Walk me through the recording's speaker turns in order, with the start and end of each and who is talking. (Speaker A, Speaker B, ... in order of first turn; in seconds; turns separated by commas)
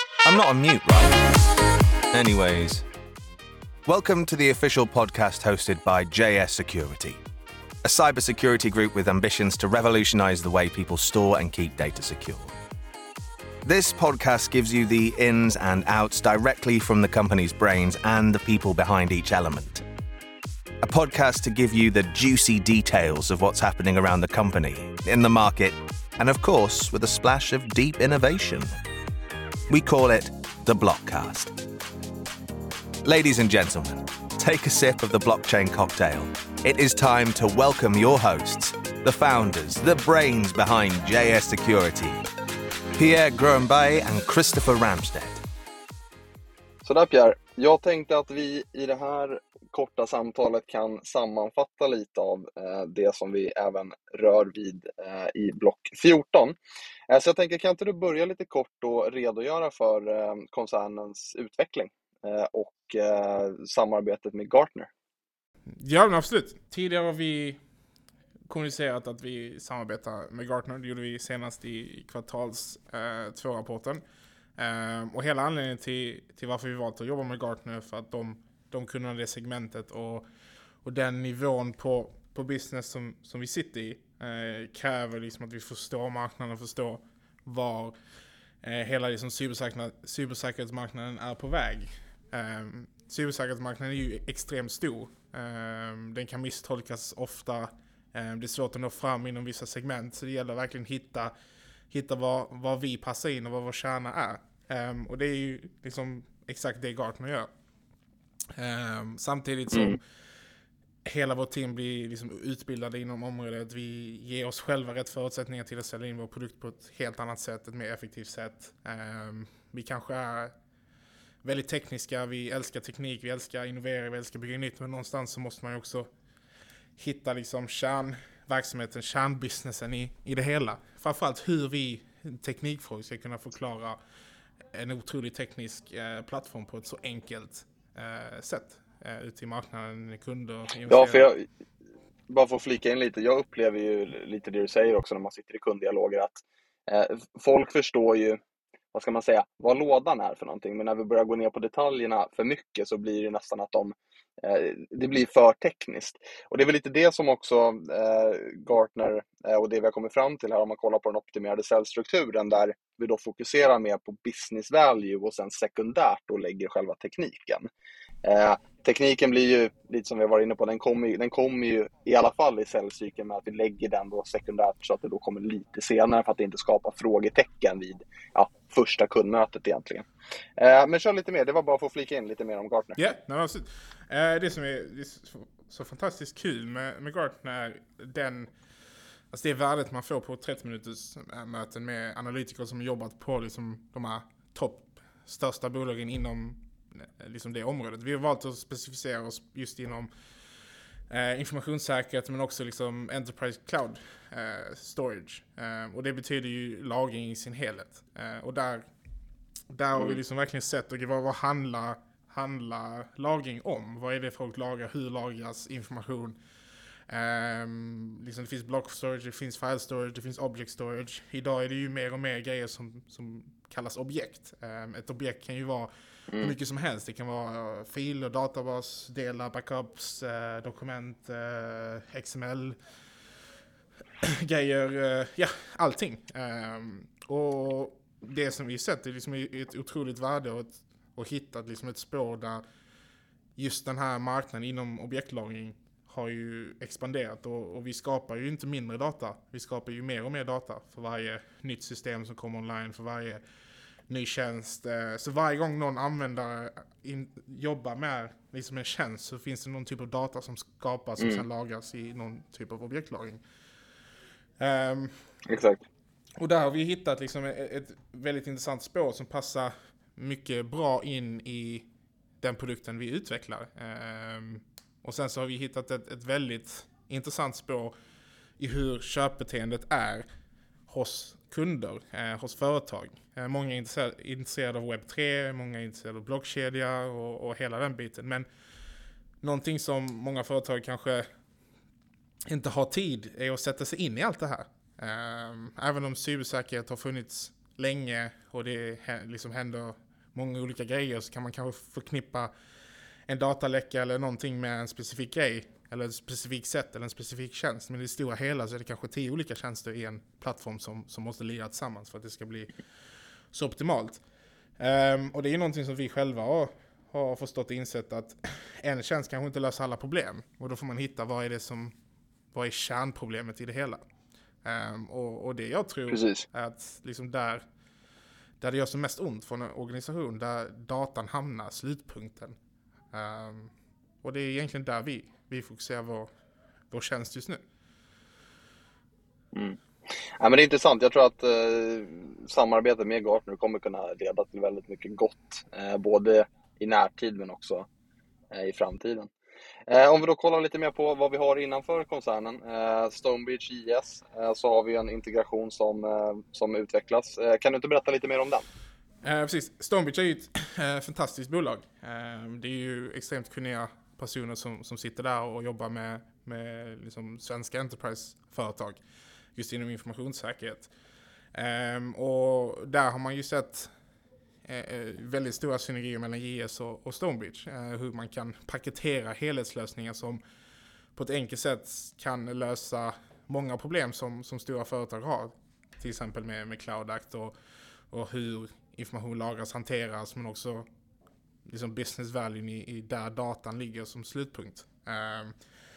Speaker A: 0.2-1.2, Speaker A: 2.1-2.8, Speaker A: 3.9-7.2, Speaker A: 7.8-12.5, Speaker A: 13.6-19.8, Speaker A: 20.8-28.7, Speaker A: 29.7-31.5, Speaker A: 33.0-42.2, Speaker A: 43.0-45.4, Speaker B: 46.8-56.6, Speaker B: 57.1-64.9, Speaker C: 65.8-67.6, Speaker C: 68.5-74.0, Speaker C: 74.6-80.2, Speaker C: 80.8-87.9, Speaker C: 88.6-101.3, Speaker C: 101.9-107.5, Speaker C: 108.6-110.0, Speaker B: 109.7-110.0, Speaker C: 111.0-120.5, Speaker C: 121.4-126.1, Speaker C: 127.0-134.0, Speaker C: 134.7-141.3, Speaker B: 140.9-141.4, Speaker B: 142.3-148.4, Speaker B: 148.9-167.7, Speaker B: 168.2-183.0, Speaker C: 183.0-188.5, Speaker C: 189.3-200.1, Speaker C: 201.1-208.8, Speaker C: 209.7-216.4, Speaker C: 217.1-225.9, Speaker B: 226.3-226.6, Speaker C: 226.4-232.8, Speaker C: 234.2-242.6, Speaker C: 243.6-253.4, Speaker C: 254.1-263.4, Speaker B: 261.2-261.4, Speaker C: 264.6-265.1, Speaker B: 265.5-265.8, Speaker C: 266.4-271.8, Speaker C: 272.4-277.9, Speaker C: 278.6-280.2, Speaker C: 280.9-288.5, Speaker C: 289.4-291.2, Speaker C: 292.5-302.5, Speaker C: 303.3-312.7, Speaker C: 313.5-314.2, Speaker C: 314.8-321.9, Speaker C: 322.5-324.0, Speaker C: 324.6-327.6, Speaker B: 326.1-326.4, Speaker C: 328.6-332.6, Speaker C: 333.1-333.7, Speaker C: 334.2-336.3, Speaker C: 336.9-337.6, Speaker B: 339.5-339.8, Speaker B: 340.4-347.9, Speaker B: 348.5-349.3, Speaker B: 349.9-358.6, Speaker C: 359.2-369.0, Speaker C: 369.5-370.9, Speaker C: 371.5-373.9, Speaker C: 374.6-380.4, Speaker C: 381.1-387.5, Speaker C: 388.1-390.9, Speaker C: 391.6-395.5